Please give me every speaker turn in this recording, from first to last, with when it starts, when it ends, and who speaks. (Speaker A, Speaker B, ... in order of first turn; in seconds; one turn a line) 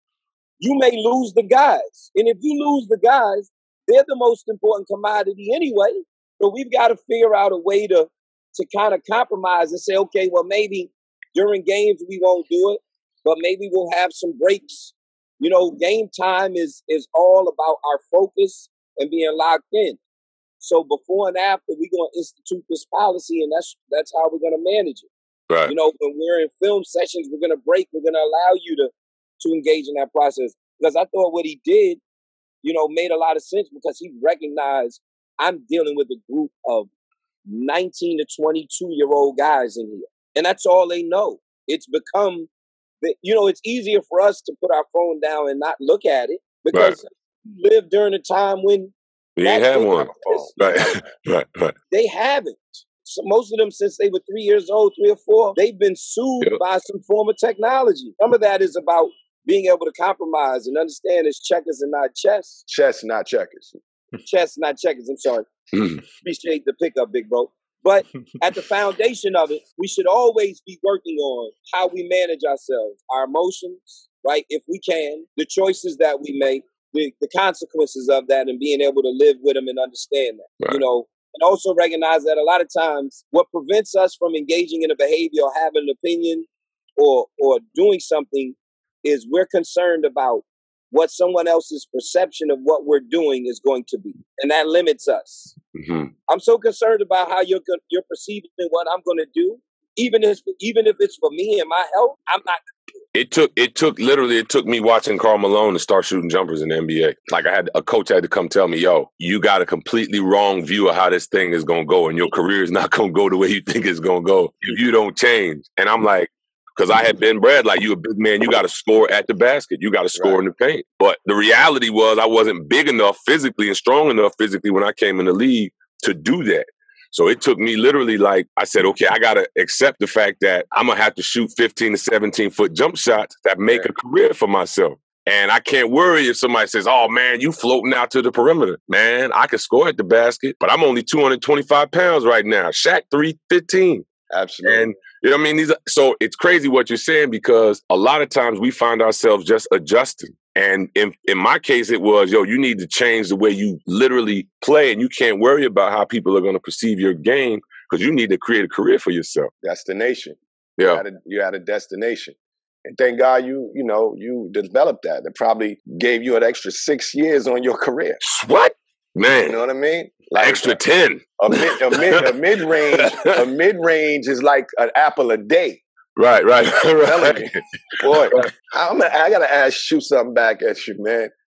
Speaker A: 0.6-20.0
Speaker A: 20.6-25.1
Speaker A: 25.7-32.0
Speaker A: 32.6-36.9
Speaker A: 37.5-42.5
Speaker A: 43.0-51.0
Speaker B: 49.4-51.7
Speaker A: 51.9-62.6
Speaker C: 62.7-63.8
Speaker A: 64.2-65.5
Speaker B: 65.7-66.0
Speaker A: 66.2-95.5
Speaker B: 95.7-96.1
Speaker A: 96.3-102.6
Speaker B: 103.1-144.1
Speaker C: 120.2-120.4
Speaker C: 144.3-144.9
Speaker B: 144.6-159.5
Speaker C: 159.6-168.2
Speaker B: 160.8-161.0
Speaker B: 168.2-169.6
Speaker C: 169.5-170.8
Speaker B: 170.4-172.3
Speaker C: 171.4-175.8
Speaker B: 172.9-173.4
Speaker B: 176.2-178.5
Speaker C: 176.9-181.3